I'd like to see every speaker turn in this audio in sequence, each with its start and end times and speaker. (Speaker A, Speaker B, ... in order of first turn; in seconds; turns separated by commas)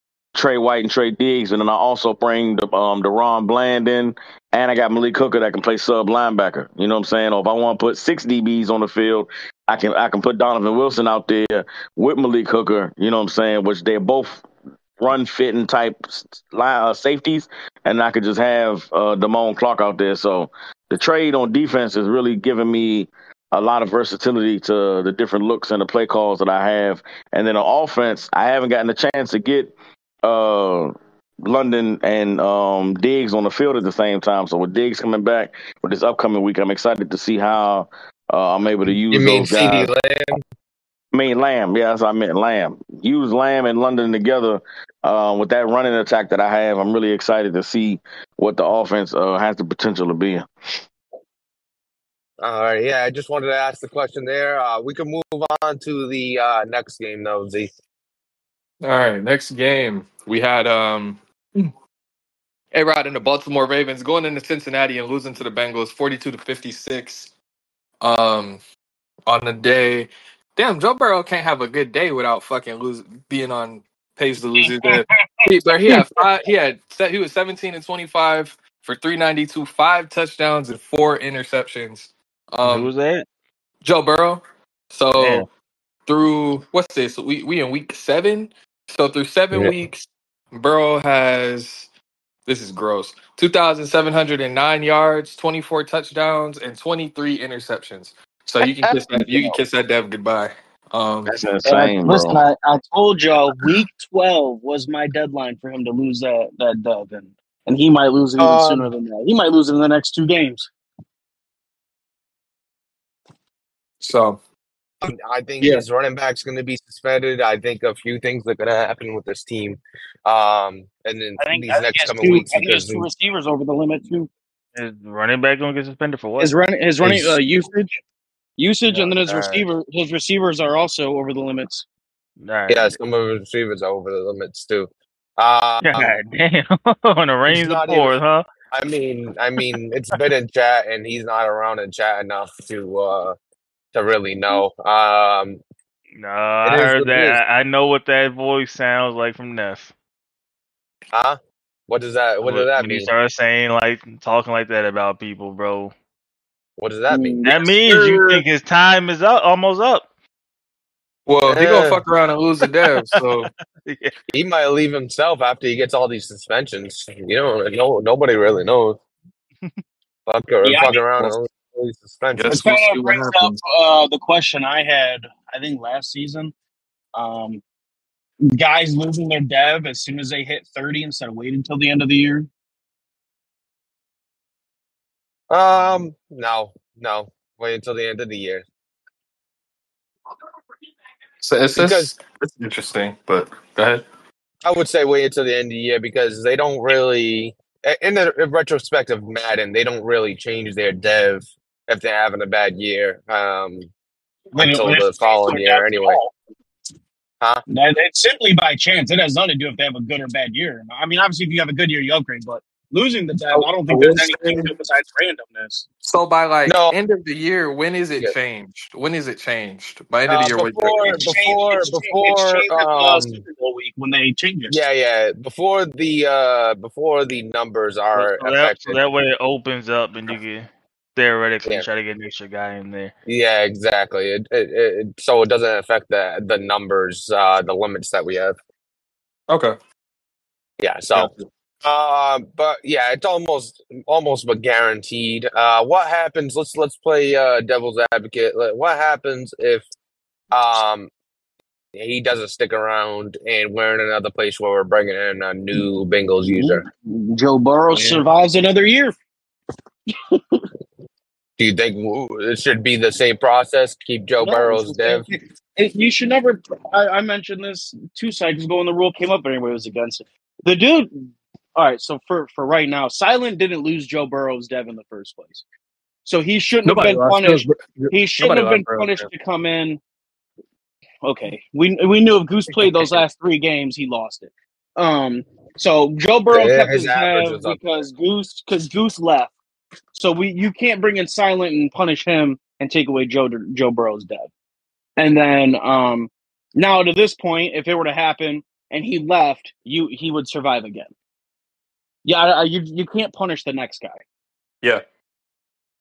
Speaker A: 0.3-14.4, Speaker A: 15.0-30.9, Speaker A: 31.4-39.9, Speaker B: 39.1-40.4, Speaker A: 41.1-50.5, Speaker B: 52.4-57.7, Speaker C: 58.8-61.7, Speaker C: 62.7-67.3, Speaker C: 68.0-68.6, Speaker C: 69.3-82.9, Speaker D: 74.6-76.1, Speaker E: 82.6-83.2, Speaker C: 83.8-85.5, Speaker E: 85.2-85.5, Speaker C: 86.0-91.9, Speaker C: 92.5-101.3, Speaker A: 98.6-99.6, Speaker A: 101.3-102.4, Speaker D: 101.6-110.7, Speaker B: 108.4-108.9, Speaker C: 114.0-114.4, Speaker B: 115.0-123.1, Speaker C: 115.6-115.8, Speaker D: 121.4-124.3, Speaker E: 124.7-126.5, Speaker D: 126.4-127.9, Speaker B: 127.0-127.4, Speaker D: 128.6-131.9, Speaker B: 129.0-129.6, Speaker E: 132.4-132.9, Speaker B: 132.7-136.2, Speaker E: 135.8-138.4, Speaker B: 137.5-138.2, Speaker B: 138.7-143.3, Speaker B: 143.9-145.6, Speaker E: 146.2-149.9, Speaker B: 146.6-147.4, Speaker B: 151.1-153.1, Speaker E: 152.4-155.9, Speaker B: 156.8-157.7, Speaker D: 157.1-158.4, Speaker E: 157.4-160.1, Speaker C: 161.3-163.5, Speaker B: 161.5-162.0, Speaker E: 163.8-164.1, Speaker B: 164.3-169.0, Speaker B: 170.3-172.7, Speaker D: 170.6-171.4, Speaker C: 172.3-173.6, Speaker D: 172.5-176.5, Speaker D: 177.1-177.6, Speaker D: 178.5-182.5, Speaker B: 185.5-188.7, Speaker C: 191.4-194.0, Speaker B: 191.8-192.1, Speaker B: 194.6-203.9, Speaker D: 204.5-206.3, Speaker B: 204.5-206.2, Speaker D: 207.7-215.9, Speaker C: 213.5-214.7, Speaker C: 216.0-221.3, Speaker B: 216.7-216.9, Speaker B: 220.3-223.4, Speaker D: 221.0-224.8, Speaker B: 224.7-229.0, Speaker E: 228.1-233.1, Speaker B: 233.3-238.6, Speaker C: 239.5-239.8, Speaker B: 240.8-241.3, Speaker C: 241.1-241.5, Speaker B: 241.8-249.8, Speaker B: 250.5-251.1, Speaker B: 251.9-256.8, Speaker D: 256.5-259.1, Speaker B: 257.9-258.2, Speaker D: 260.3-260.6, Speaker B: 261.6-265.2, Speaker D: 264.4-275.6, Speaker D: 276.2-280.0, Speaker C: 276.8-279.3, Speaker D: 281.2-289.5, Speaker B: 286.5-287.8, Speaker D: 290.1-294.5, Speaker D: 295.2-301.1, Speaker D: 302.2-304.2